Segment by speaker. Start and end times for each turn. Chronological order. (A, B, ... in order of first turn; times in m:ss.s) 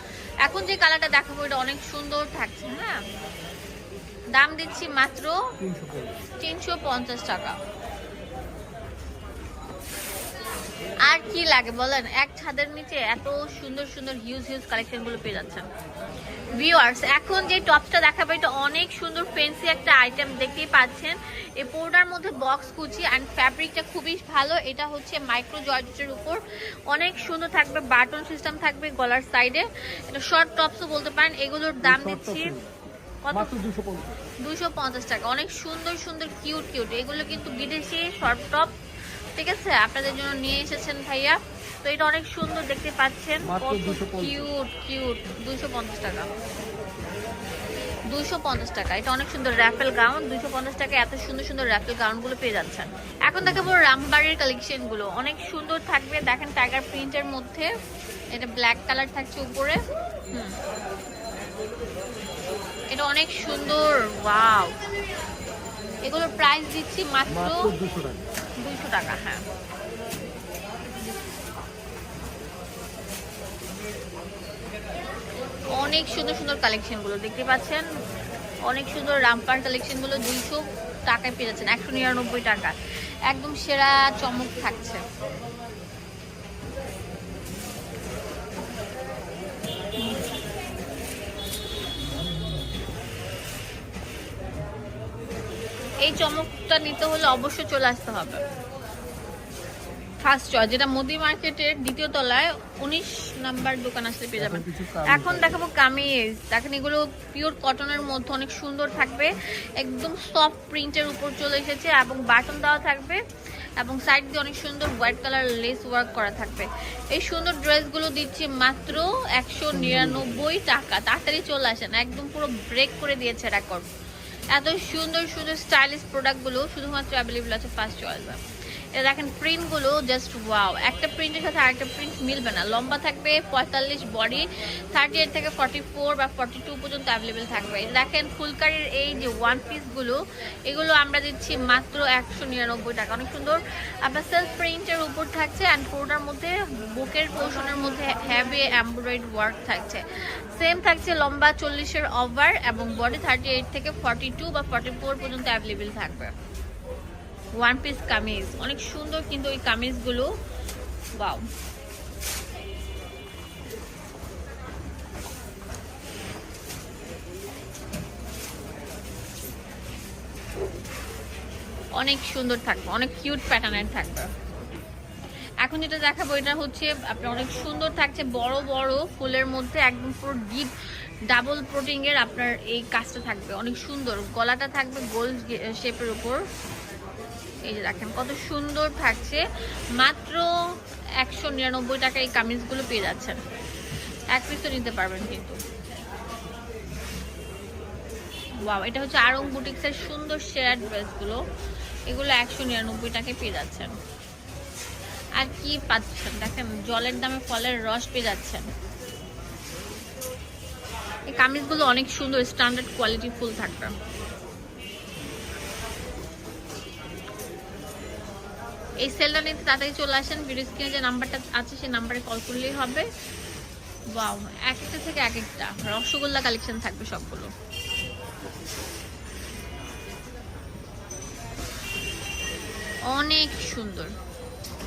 0:00.4-0:03.0 A
0:04.4-0:05.4 A
0:05.6-0:06.2 B
0:06.4-0:07.6 A
0:11.1-0:15.7 A
0:16.6-0:32.5 A
0:31.8-0:34.2 B
0:33.2-0:33.5 A
0:34.4-0:38.7 A
0:39.4-0:46.3 A
0:43.4-0:44.5 B
0:48.1-0:57.7 A
0:53.4-0:53.7 B
0:58.3-0:59.8 A
1:02.9-1:04.7 A
1:06.0-1:07.7 A
1:07.3-1:08.2 B
1:08.6-1:09.4 A
1:15.7-1:17.8 A
1:18.7-1:22.8 A
1:23.3-1:25.0 A
1:36.0-1:38.4 A
1:40.2-1:53.2 A
1:44.4-1:45.6 B
1:53.8-2:03.9 A
1:59.7-2:00.5 B
2:04.5-2:08.4 A
2:09.0-2:36.3 A
2:37.6-2:40.3 A
2:52.0-2:54.3 A
2:55.6-3:00.7 A
3:01.3-3:06.4 A
3:07.6-3:09.4 A
3:10.0-3:10.5 A
3:11.2-3:13.4 A
3:14.3-3:15.6 A
3:18.6-3:21.4 A
3:22.1-3:23.9 A
3:25.4-3:28.7 A
3:31.3-3:33.9 A
3:39.0-3:43.1 A
3:44.1-3:47.5 A
3:53.1-3:54.1 A